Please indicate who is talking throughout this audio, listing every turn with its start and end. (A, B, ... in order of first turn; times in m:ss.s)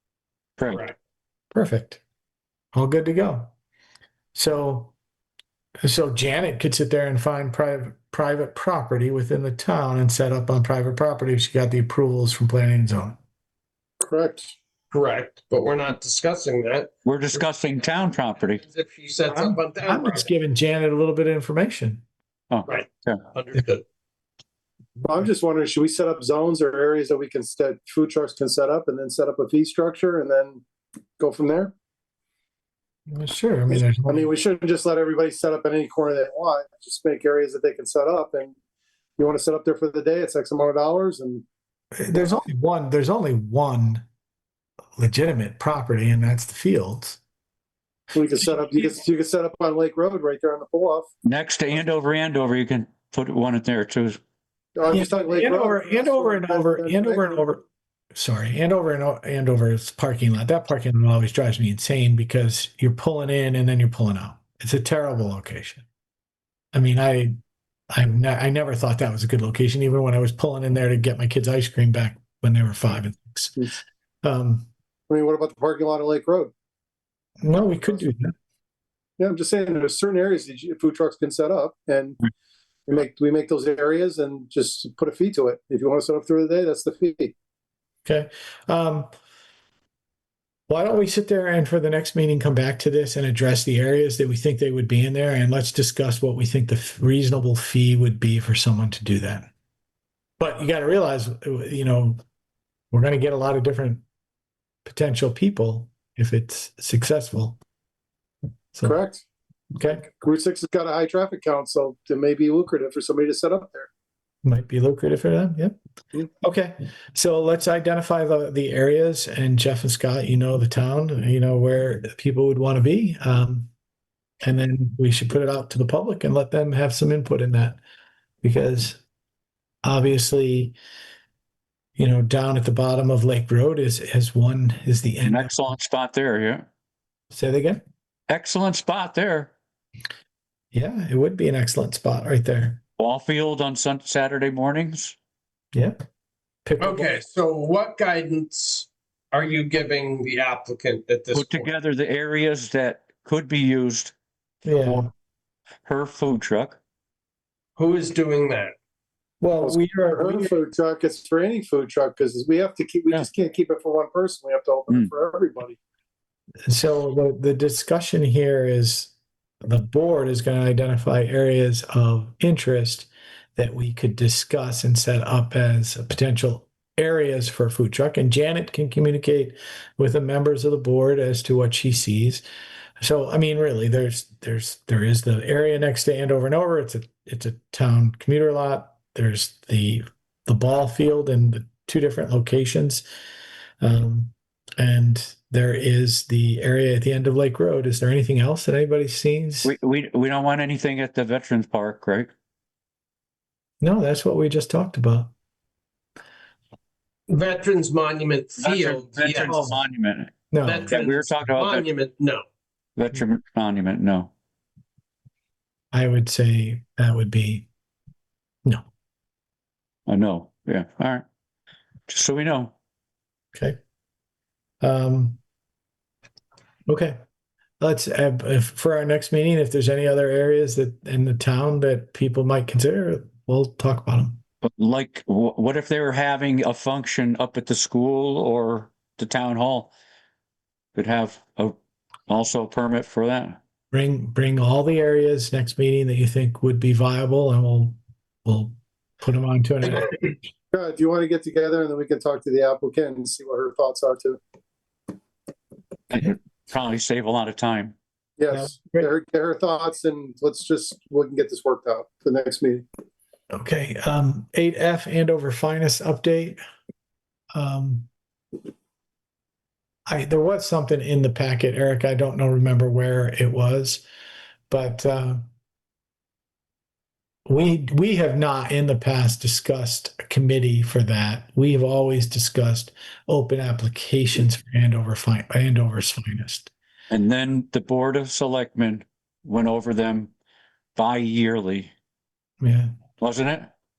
0:00.6-0:00.8 A
0:01.5-0:02.0 B
0:02.7-0:03.5 B
0:04.3-0:04.9 B
0:05.8-0:13.2 B
0:14.0-0:14.5 C
0:14.9-0:17.4 D
0:17.0-0:18.6 A
0:18.6-0:20.3 D
0:19.3-0:22.0 B
0:22.5-0:23.2 A
0:22.7-0:23.8 D
0:25.0-0:30.6 C
0:31.2-0:31.7 C
0:33.1-0:34.3 B
0:33.7-0:38.5 C
0:39.2-0:41.4 C
0:42.0-0:44.0 B
0:42.1-0:42.4 C
0:45.0-0:47.2 B
0:48.1-0:51.1 C
0:51.2-0:54.2 A
0:54.8-0:57.4 C
0:54.9-0:57.6 B
0:58.1-1:05.9 B
1:06.7-1:07.4 B
1:07.9-1:13.7 B
1:14.2-1:14.7 B
1:15.1-1:16.5 C
1:17.4-1:18.3 B
1:17.5-1:18.0 C
1:19.2-1:22.2 C
1:22.9-1:27.3 C
1:28.0-1:29.1 B
1:30.7-1:39.5 B
1:40.4-1:42.2 B
1:42.9-1:44.0 B
1:44.8-1:47.6 B
1:48.8-1:49.2 C
1:49.8-1:50.0 B
1:50.0-1:53.9 C
1:54.4-1:55.8 B
1:56.4-2:03.7 B
2:04.4-2:07.8 B
2:08.4-2:09.0 B
2:09.8-2:10.8 B
2:12.0-2:15.5 B
2:15.2-2:16.7 A
2:17.3-2:17.8 B
2:18.3-2:19.5 A
2:20.7-2:22.8 B
2:23.0-2:25.2 A
2:25.7-2:26.0 B
2:26.6-2:27.2 B
2:26.8-2:31.7 D
2:31.3-2:34.2 A
2:34.6-2:35.1 B
2:35.8-2:36.8 A
2:37.8-2:38.8 D
2:39.4-2:40.5 B
2:39.6-2:45.8 C
2:46.7-3:02.4 B
3:03.0-3:13.0 B
3:13.8-3:19.7 B
3:19.6-3:22.3 A
3:23.8-3:25.3 B
3:27.3-3:29.8 D
3:28.6-3:31.9 A
3:29.5-3:29.7 B
3:30.5-3:30.9 B
3:30.6-3:32.4 D
3:33.0-3:34.3 A
3:35.9-3:37.7 B
3:40.1-3:41.2 A
3:42.1-3:42.7 A
3:44.8-3:45.4 B
3:46.9-3:47.2 B
3:47.8-3:54.4 B
3:54.6-3:59.9 A
4:00.9-4:01.8 A
4:02.3-4:03.6 A
4:03.9-4:10.2 B
4:10.7-4:14.4 C
4:16.1-4:18.0 A
4:18.4-4:22.8 C
4:18.5-4:19.0 B
4:23.5-4:26.6 B
4:27.5-4:28.1 B
4:30.1-4:34.0 B
4:34.7-4:35.4 B
4:37.5-4:46.7 B
4:47.1-4:50.3 A
4:51.0-4:51.9 A
4:52.6-4:53.0 B
4:53.2-4:53.7 A